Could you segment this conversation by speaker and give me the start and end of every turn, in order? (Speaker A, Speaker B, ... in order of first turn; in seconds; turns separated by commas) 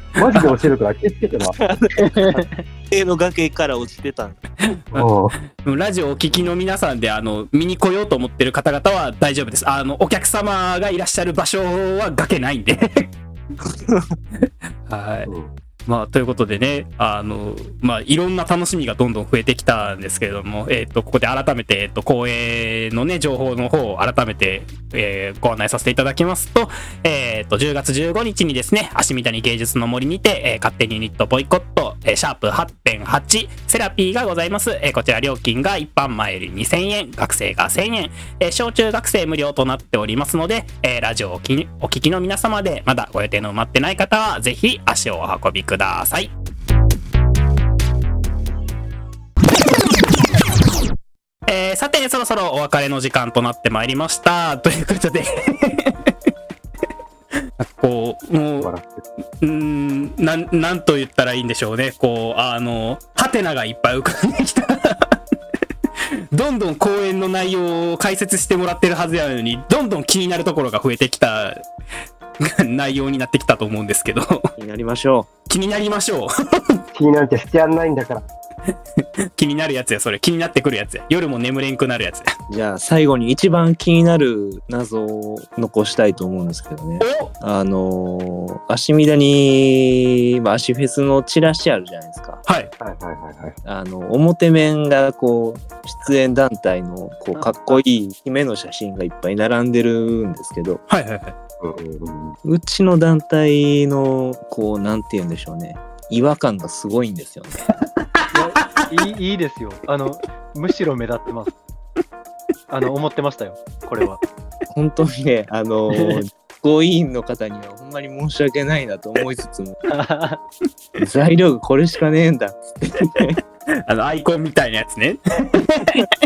Speaker A: 0.2-1.6, Speaker B: 1.6-4.4, Speaker C: 1.9-2.6, Speaker D: 4.6-5.1, Speaker A: 4.9-5.3, Speaker D: 5.6-13.1, Speaker D: 14.4-15.3, Speaker A: 15.3-15.5, Speaker D: 15.9-46.3, Speaker D: 51.5-56.1, Speaker D: 57.6-58.7, Speaker A: 58.6-59.0, Speaker D: 59.4-65.2, Speaker D: 66.3-71.6, Speaker D: 72.4-74.5, Speaker B: 74.6-75.3, Speaker D: 75.5-76.8, Speaker A: 76.9-78.3, Speaker D: 79.4-82.3, Speaker B: 82.5-92.4, Speaker D: 87.0-87.3, Speaker D: 92.5-92.7, Speaker A: 92.8-93.6, Speaker B: 93.7-100.8, Speaker C: 97.3-97.8, Speaker D: 100.9-101.3, Speaker A: 101.6-102.4, Speaker B: 102.4-107.7, Speaker D: 108.0-108.9, Speaker C: 108.3-111.6, Speaker C: 112.7-114.2, Speaker B: 114.7-119.8, Speaker C: 116.0-116.2, Speaker C: 119.9-120.4, Speaker B: 121.0-123.4, Speaker D: 123.9-126.1